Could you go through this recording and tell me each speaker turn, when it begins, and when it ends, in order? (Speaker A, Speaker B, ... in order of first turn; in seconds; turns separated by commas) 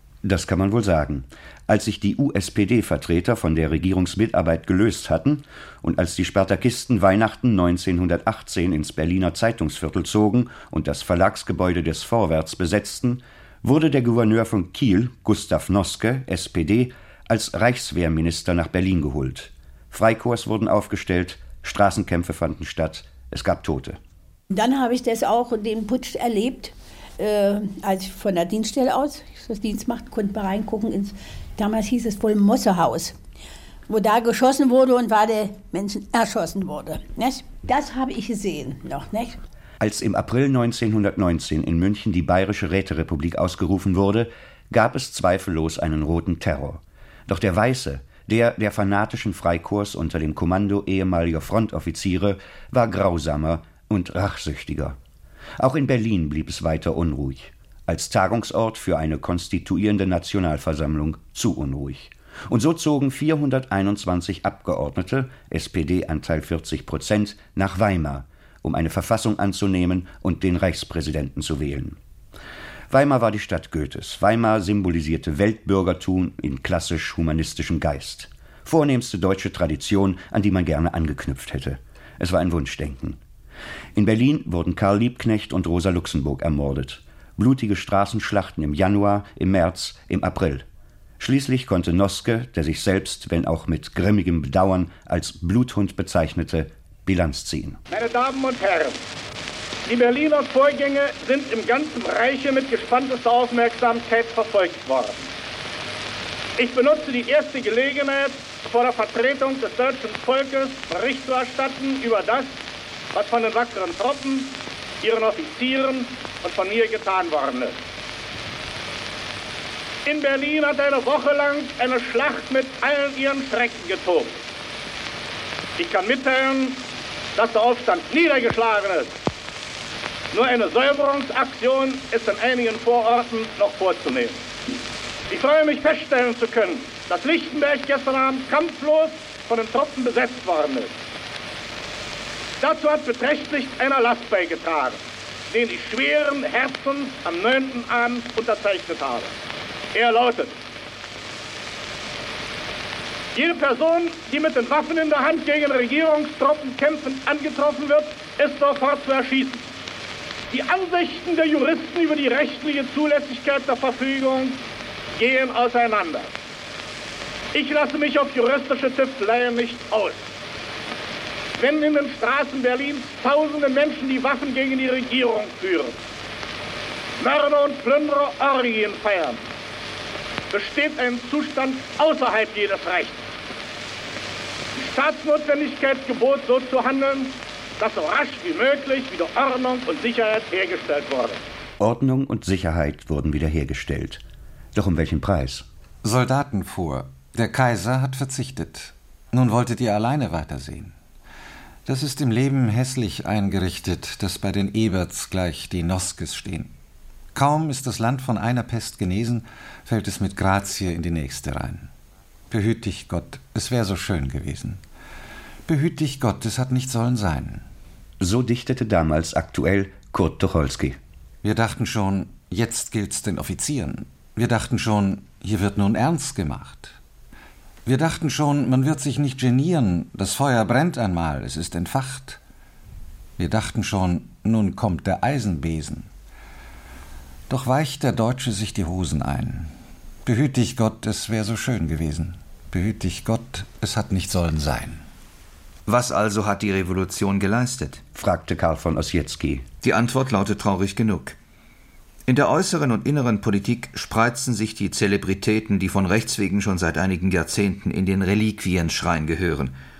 Speaker A: 0.2-24.0, Speaker B: 24.5-33.2, Speaker B: 33.9-39.4, Speaker A: 39.8-55.0, Speaker A: 55.6-72.0, Speaker A: 72.9-83.2, Speaker A: 83.9-90.7, Speaker A: 91.2-97.8, Speaker C: 97.9-99.0, Speaker C: 99.9-105.2, Speaker C: 106.6-112.5, Speaker C: 113.1-117.8, Speaker C: 120.0-124.4, Speaker C: 125.8-126.8, Speaker C: 127.3-129.1, Speaker C: 130.3-134.4, Speaker C: 135.3-140.9, Speaker C: 142.6-145.0, Speaker C: 145.5-149.3, Speaker C: 149.9-150.5, Speaker C: 153.3-159.6, Speaker C: 160.5-164.6, Speaker C: 165.2-166.3, Speaker C: 167.5-170.2, Speaker C: 171.6-176.0, Speaker C: 177.2-179.4, Speaker C: 180.5-183.2, Speaker C: 184.7-191.4, Speaker A: 191.8-195.7, Speaker D: 196.0-200.9, Speaker D: 201.8-206.7, Speaker D: 207.3-211.9, Speaker D: 212.5-214.8, Speaker D: 215.7-217.6, Speaker A: 218.2-221.0, Speaker D: 221.4-226.9, Speaker D: 227.8-232.4, Speaker D: 233.4-236.1, Speaker D: 237.5-239.7, Speaker D: 240.2-245.0, Speaker E: 245.8-248.0, Speaker A: 248.1-249.7, Speaker E: 249.8-251.4, Speaker E: 252.2-259.7